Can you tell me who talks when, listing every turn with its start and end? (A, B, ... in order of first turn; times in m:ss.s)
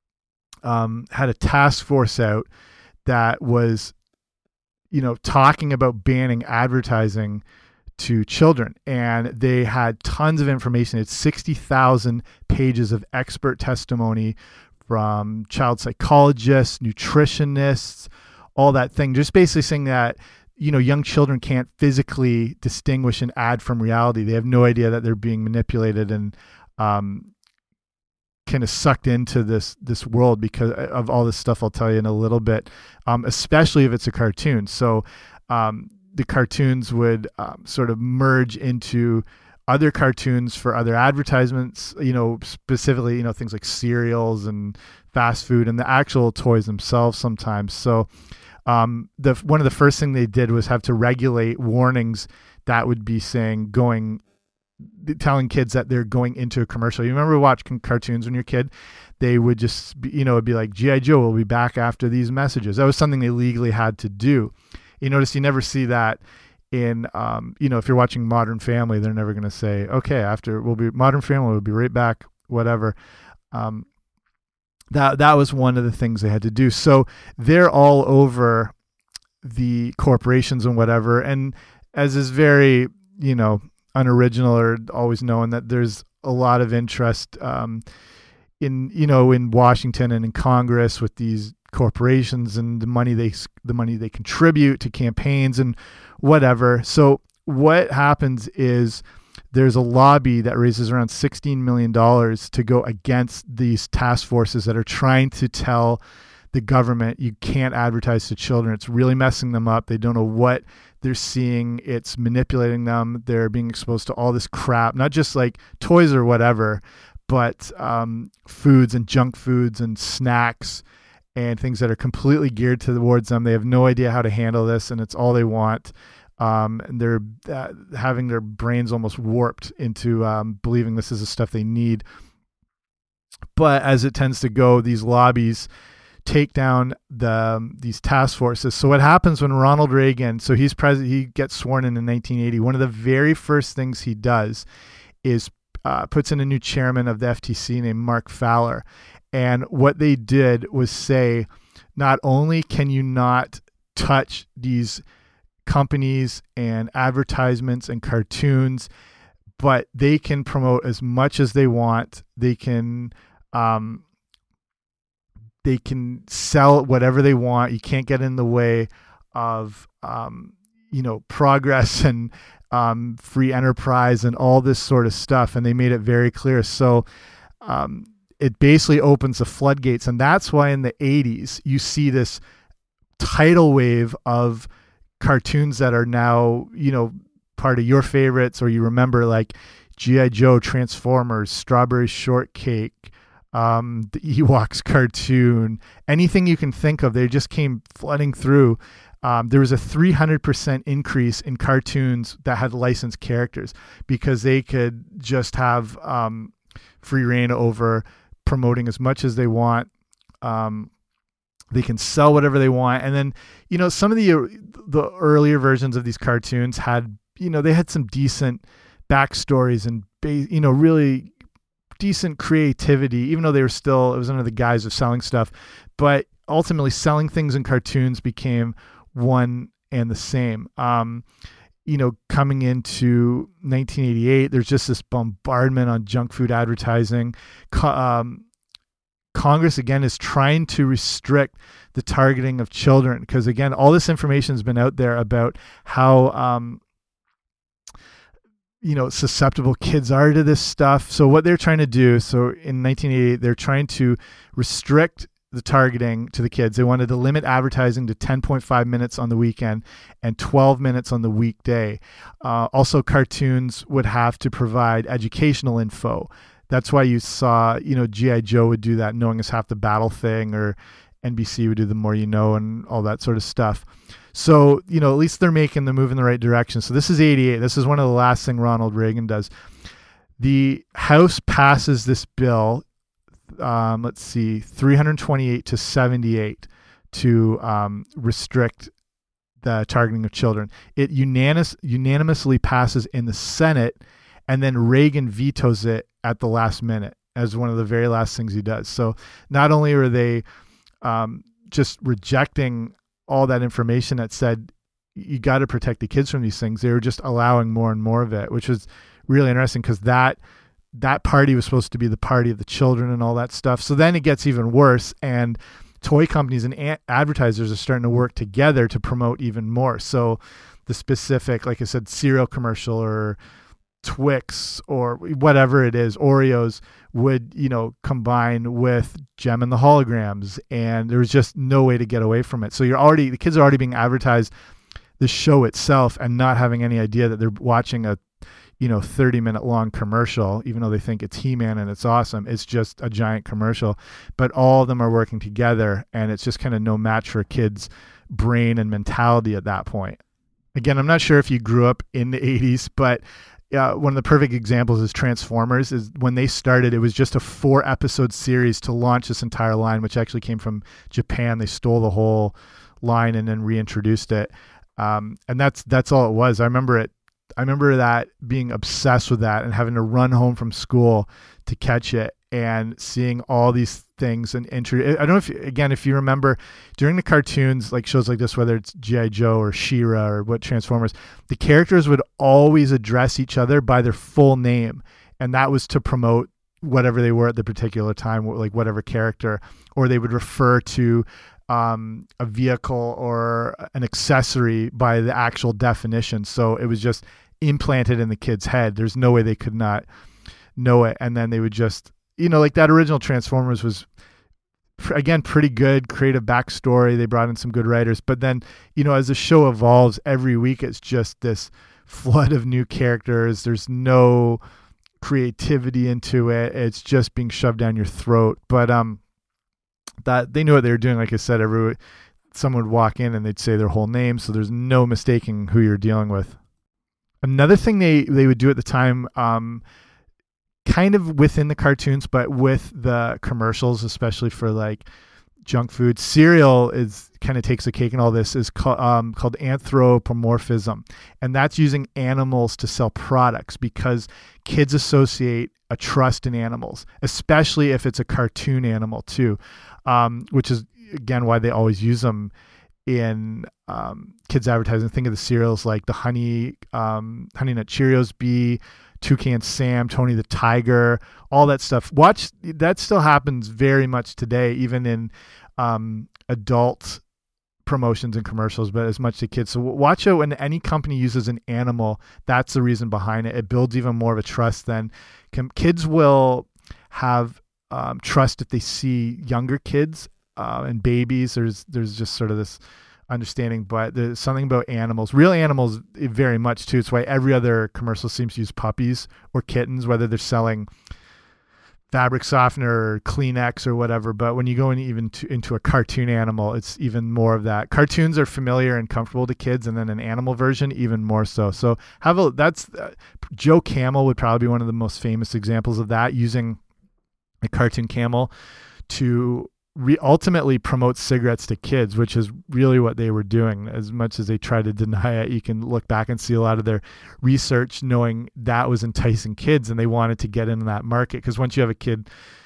0:00.6-0:02.5 A
0:03.0-0:03.9 A
0:04.9-0:07.4 A
0:08.0-0:27.3 A
0:28.4-0:48.1 A
0:48.7-0:54.2 A
0:54.8-1:06.2 A
1:06.7-1:12.9 A
1:13.5-1:13.8 A
1:14.9-1:18.7 A
1:19.4-1:27.8 A
1:28.6-1:39.0 A
1:39.5-1:46.0 A
1:46.5-2:00.8 A
2:01.4-2:12.0 A
2:13.6-2:15.7 A
2:16.2-2:24.6 A
2:25.2-2:35.0 A
2:35.6-2:38.9 A
2:39.6-2:44.0 A
2:45.6-2:57.0 A
2:57.6-3:02.4 A
3:03.2-3:04.7 A
3:05.2-3:29.9 A
3:30.4-3:30.9 A
3:31.7-3:41.3 A
3:42.0-3:51.2 A
3:51.8-3:58.4 A
3:59.3-4:06.8 A
4:08.8-4:39.5 A
4:40.4-4:42.8 A
4:43.6-4:48.9 A
4:49.6-5:00.4 A
5:01.0-5:10.4 A
5:11.0-5:23.4 A
5:24.0-5:34.5 A
5:35.2-5:38.2 A
5:38.8-5:50.2 A
5:50.7-6:40.0 A
6:40.8-6:44.1 A
6:45.0-6:54.6 A
6:55.2-6:59.2 A
7:00.2-7:02.0 A
7:02.5-7:06.6 A
7:07.4-7:09.8 A
7:10.8-7:15.0 A
7:15.6-7:32.5 A
7:33.0-7:47.2 A
7:47.8-8:10.9 A
8:12.1-8:26.8 A
8:27.6-8:28.5 A
8:29.1-8:42.2 A